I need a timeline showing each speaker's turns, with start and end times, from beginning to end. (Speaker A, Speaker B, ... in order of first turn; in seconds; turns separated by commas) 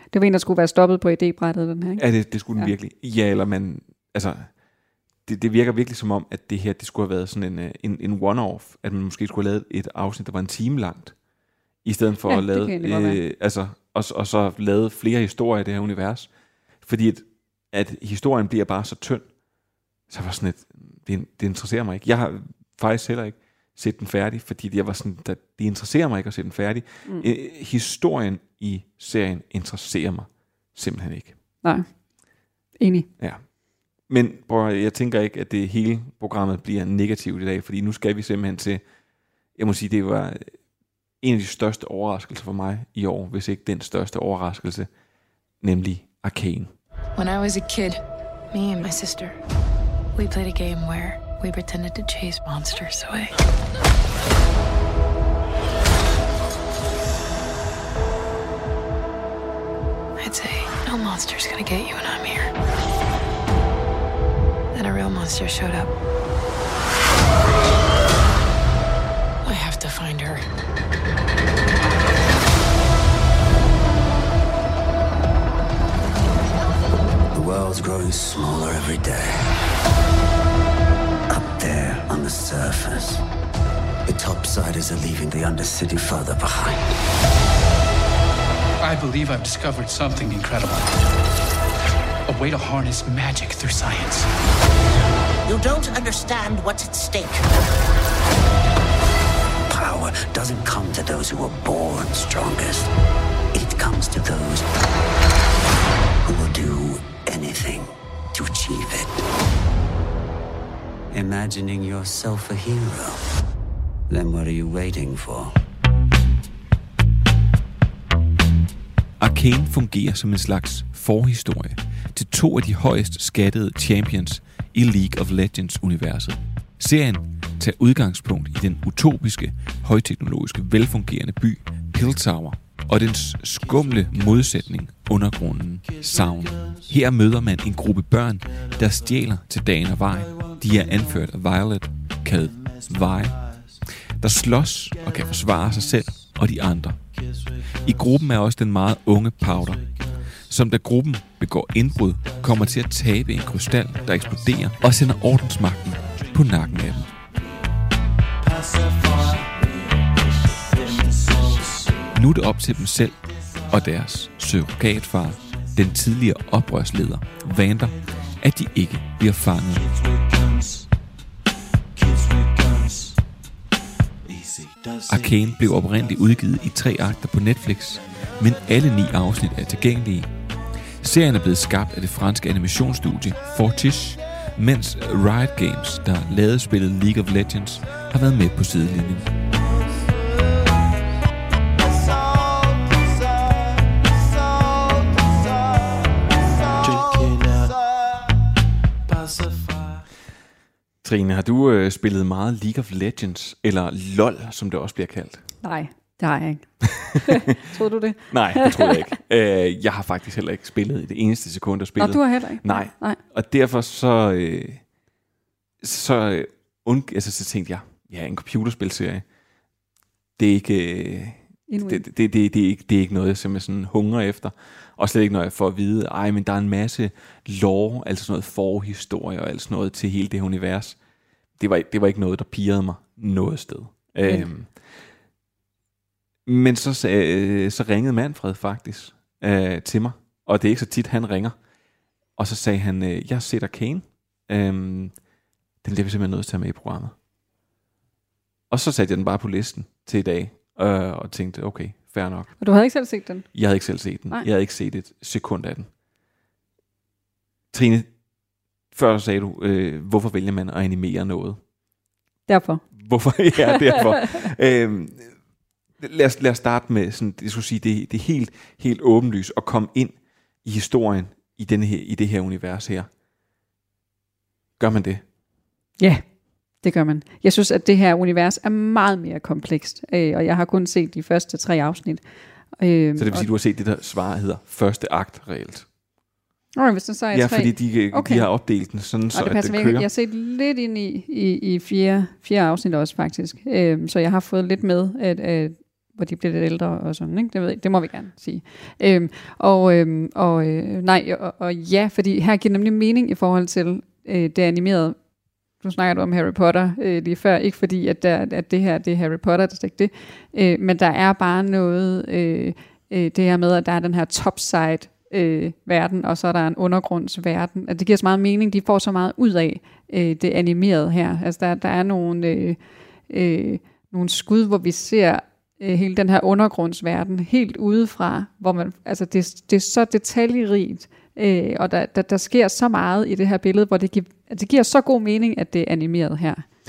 Speaker A: 0.1-2.0, Speaker B: 2.0-4.5, Speaker B: 5.3-11.2, Speaker B: 11.8-16.3, Speaker A: 12.3-13.2, Speaker B: 16.8-19.3, Speaker B: 20.1-31.4, Speaker A: 31.6-31.9, Speaker A: 32.8-33.1, Speaker B: 33.2-33.5, Speaker B: 34.1-38.8, Speaker B: 39.6-40.6, Speaker B: 41.2-44.9, Speaker B: 45.6-46.7, Speaker C: 47.2-49.4, Speaker C: 50.1-53.3, Speaker C: 60.2-62.5, Speaker C: 64.7-65.9, Speaker C: 69.4-70.4, Speaker D: 77.3-79.5, Speaker D: 81.3-83.2, Speaker D: 84.1-86.9, Speaker E: 88.8-91.0, Speaker E: 92.3-94.3, Speaker F: 95.5-97.5, Speaker D: 99.7-102.9, Speaker D: 103.5-104.7, Speaker D: 106.3-109.2, Speaker D: 111.1-113.2, Speaker D: 114.1-115.5, Speaker B: 119.2-143.4, Speaker B: 144.2-147.0, Speaker B: 147.8-149.9, Speaker B: 150.5-157.1, Speaker B: 162.1-169.9, Speaker B: 175.1-180.3, Speaker B: 181.0-189.3, Speaker B: 201.0-205.4, Speaker A: 205.6-209.0, Speaker B: 206.8-207.6, Speaker B: 208.3-214.8, Speaker A: 212.0-213.2, Speaker B: 215.8-219.2, Speaker B: 220.4-231.0, Speaker A: 221.7-222.1, Speaker B: 231.6-234.7, Speaker A: 234.2-234.5, Speaker B: 236.5-241.6, Speaker B: 242.4-245.2, Speaker B: 245.8-247.2, Speaker B: 248.7-252.5, Speaker A: 252.6-253.5, Speaker B: 253.5-255.9, Speaker B: 257.7-258.1, Speaker B: 258.9-261.6, Speaker A: 262.5-262.8, Speaker B: 263.0-265.3, Speaker A: 263.6-264.4, Speaker B: 266.0-273.1, Speaker B: 274.8-275.2, Speaker A: 276.0-276.2, Speaker A: 276.8-282.2, Speaker A: 282.7-283.5, Speaker B: 283.2-285.9, Speaker A: 286.8-288.5, Speaker B: 287.3-290.1, Speaker A: 289.3-305.2, Speaker A: 305.8-336.6